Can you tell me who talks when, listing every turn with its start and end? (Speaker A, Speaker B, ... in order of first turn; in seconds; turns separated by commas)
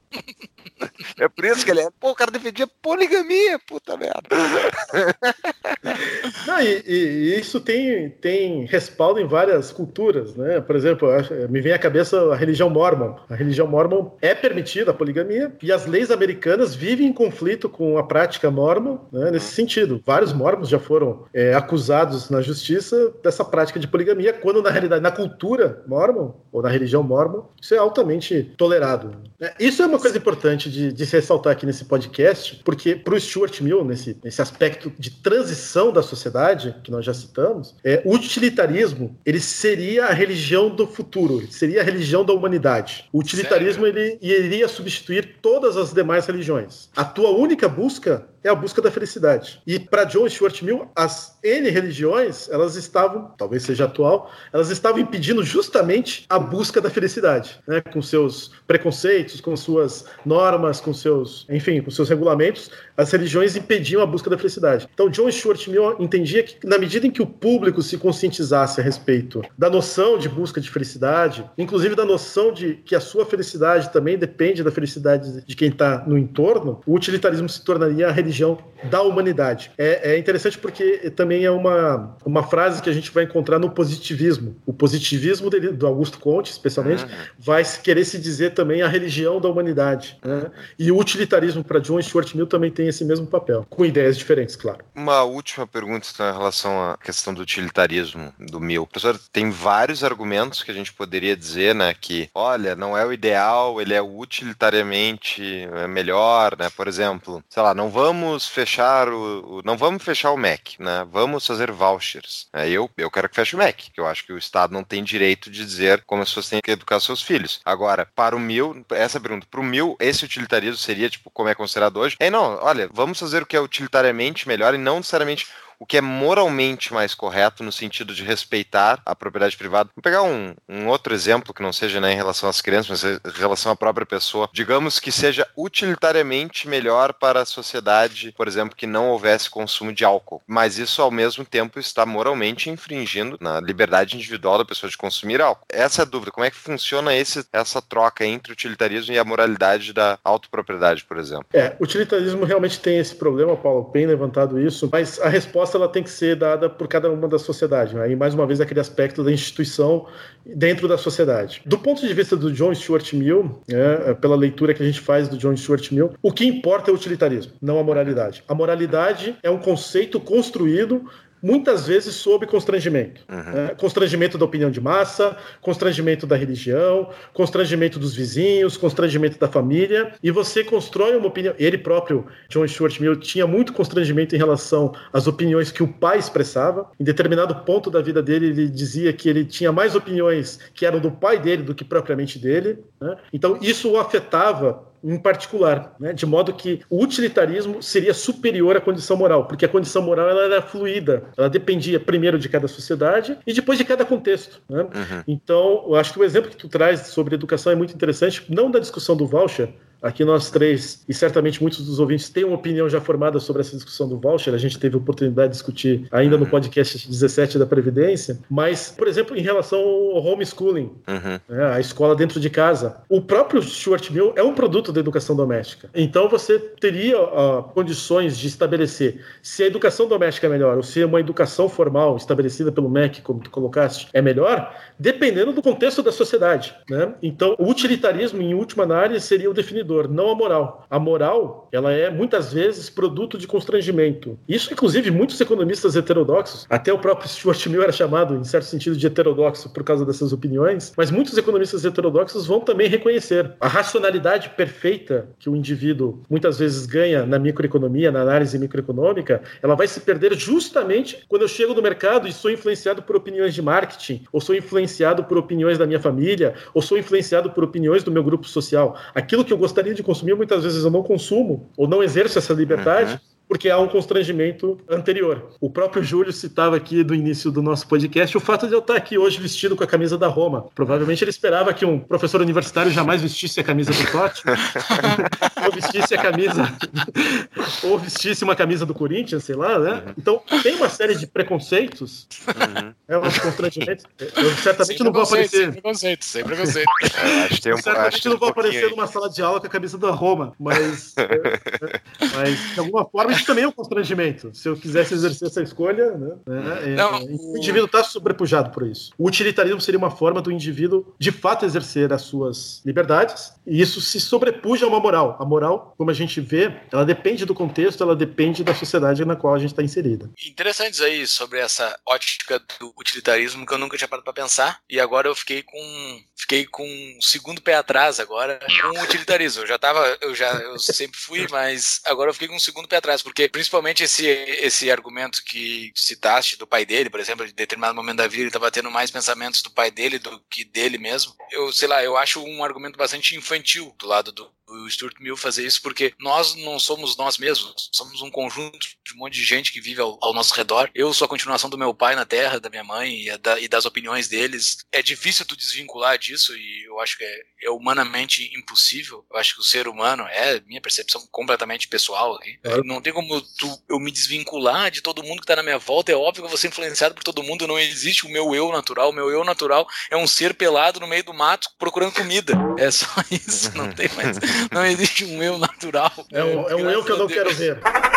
Speaker A: 1.1-6.0, Speaker B: 6.2-94.8, Speaker C: 43.3-43.8, Speaker A: 86.8-87.3, Speaker A: 90.2-90.5, Speaker A: 95.0-151.4, Speaker B: 151.5-292.3, Speaker A: 167.9-168.1, Speaker A: 173.3-173.6, Speaker A: 204.9-205.2, Speaker A: 216.2-216.6, Speaker A: 221.1-221.4, Speaker A: 272.7-273.2, Speaker A: 284.5-285.0, Speaker C: 284.8-285.6, Speaker A: 292.5-293.5, Speaker B: 293.1-295.8, Speaker C: 294.8-297.4, Speaker B: 296.4-296.7, Speaker A: 297.1-298.9, Speaker B: 297.7-320.3, Speaker A: 301.2-301.9, Speaker A: 306.6-306.9, Speaker C: 306.9-307.8, Speaker C: 320.4-377.6, Speaker A: 373.7-374.4, Speaker B: 376.3-377.8